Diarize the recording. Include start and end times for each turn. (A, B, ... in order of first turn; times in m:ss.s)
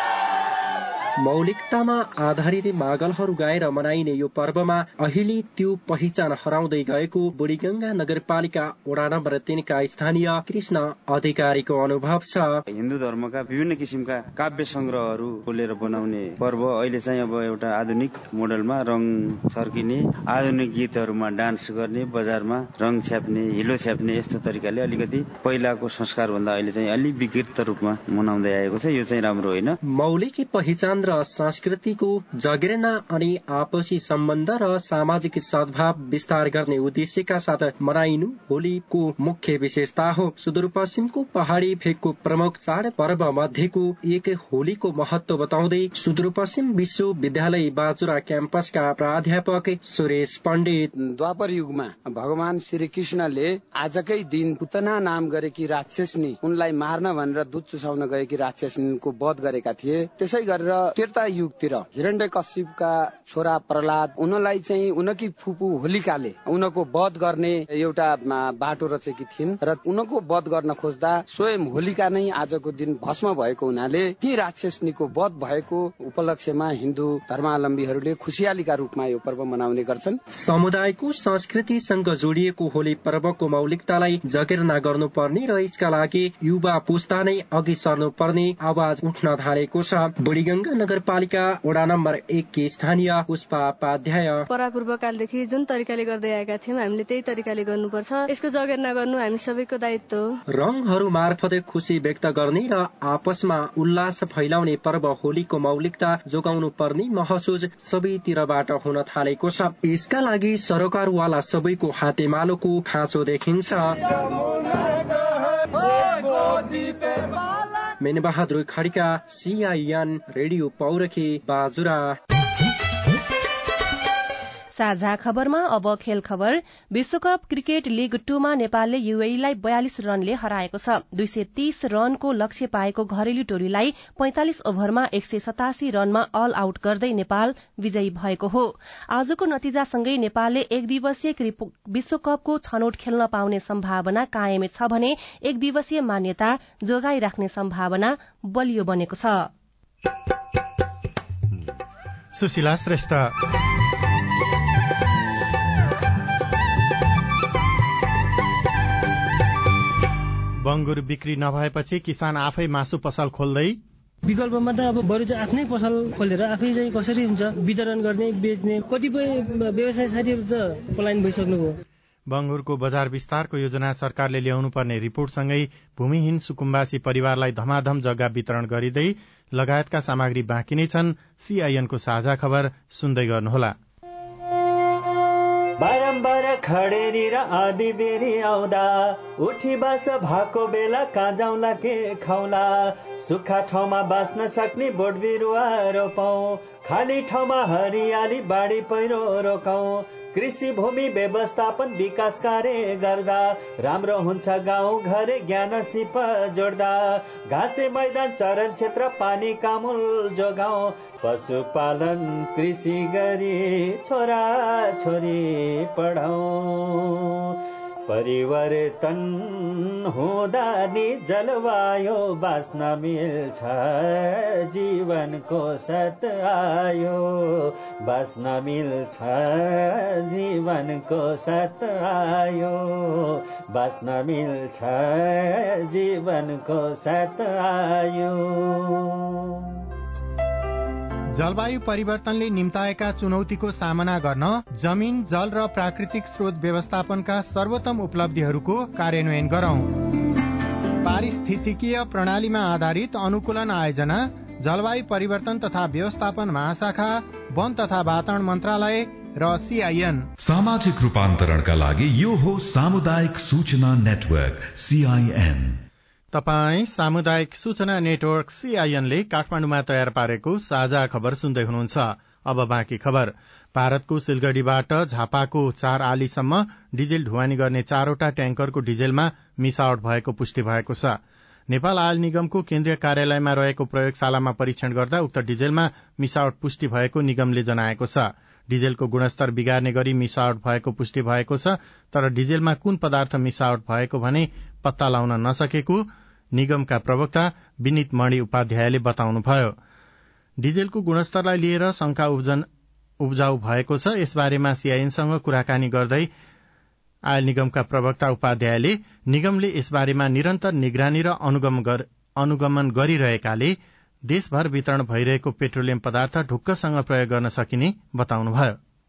0:01.2-0:12.6 A
0:12.7-0:29.8 B
0:29.9-0:50.9 A
0:51.0-1:20.2 C
1:20.3-1:34.5 A
1:34.5-1:40.3 D
1:40.5-1:54.0 A
1:58.0-2:02.2 A
2:04.7-2:29.5 E
2:32.3-2:33.3 F
2:40.6-2:43.8 F
2:44.3-2:51.8 G
2:52.3-3:03.8 F
3:05.8-3:37.4 H
3:38.1-3:59.3 H
4:01.3-4:10.0 F
4:11.0-4:20.3 F
4:20.4-4:25.8 I
4:26.3-4:41.2 F
4:41.7-4:59.8 F
5:00.6-5:02.6 F
5:03.2-5:06.3 F
5:07.3-5:18.8 F